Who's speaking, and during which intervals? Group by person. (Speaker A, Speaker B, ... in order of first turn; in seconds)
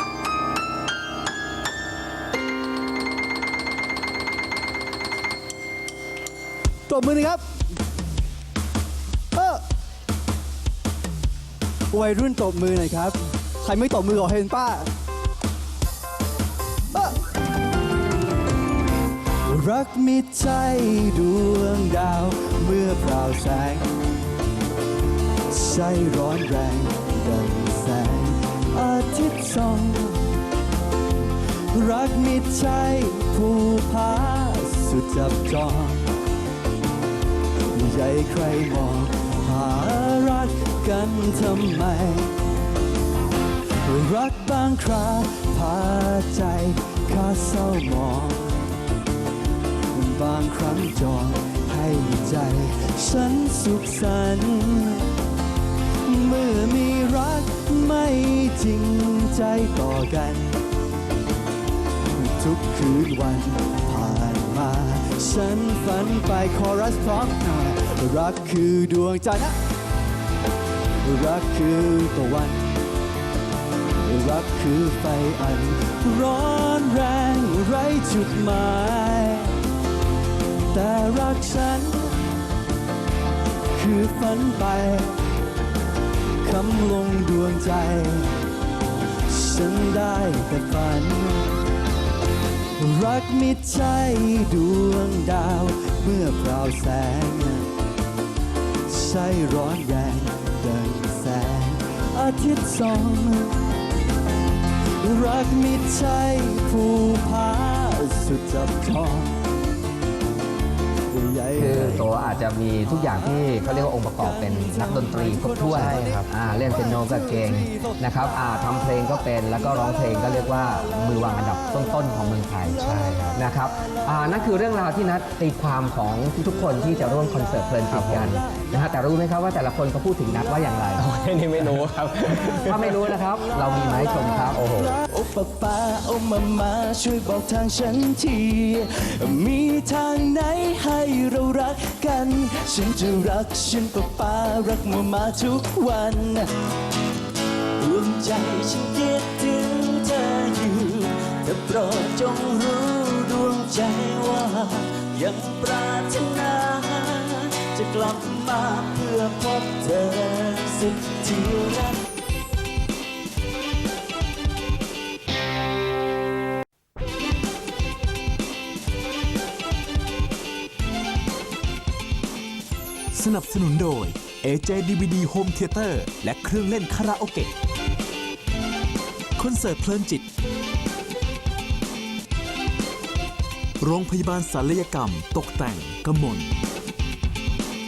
Speaker A: 6.9-7.4, 9.3-9.6, 11.9-14.9, 19.4-23.9, 25.5-30.4, 31.7-36.0, 37.7-42.3, 43.9-48.6, 49.9-55.0, 56.1-60.6, 62.2-69.6, 71.0-72.7, 74.0-79.6, 80.7-82.2, 83.8-85.1, 86.4-88.4, 89.3-91.6, 92.8-97.7, 98.9-103.5, 105.0-109.4, 111.1-118.0, 119.6-122.0, 122.7-123.4, 135.1-146.5, 147.8-162.0
Speaker B: 111.5-122.8, 123.3-131.1, 132.7-134.7
Speaker C: 115.7-116.3, 122.8-123.5, 127.9-128.4, 131.0-133.2, 134.5-135.0
Speaker D: 173.1-177.5, 179.4-180.3, 183.8-186.6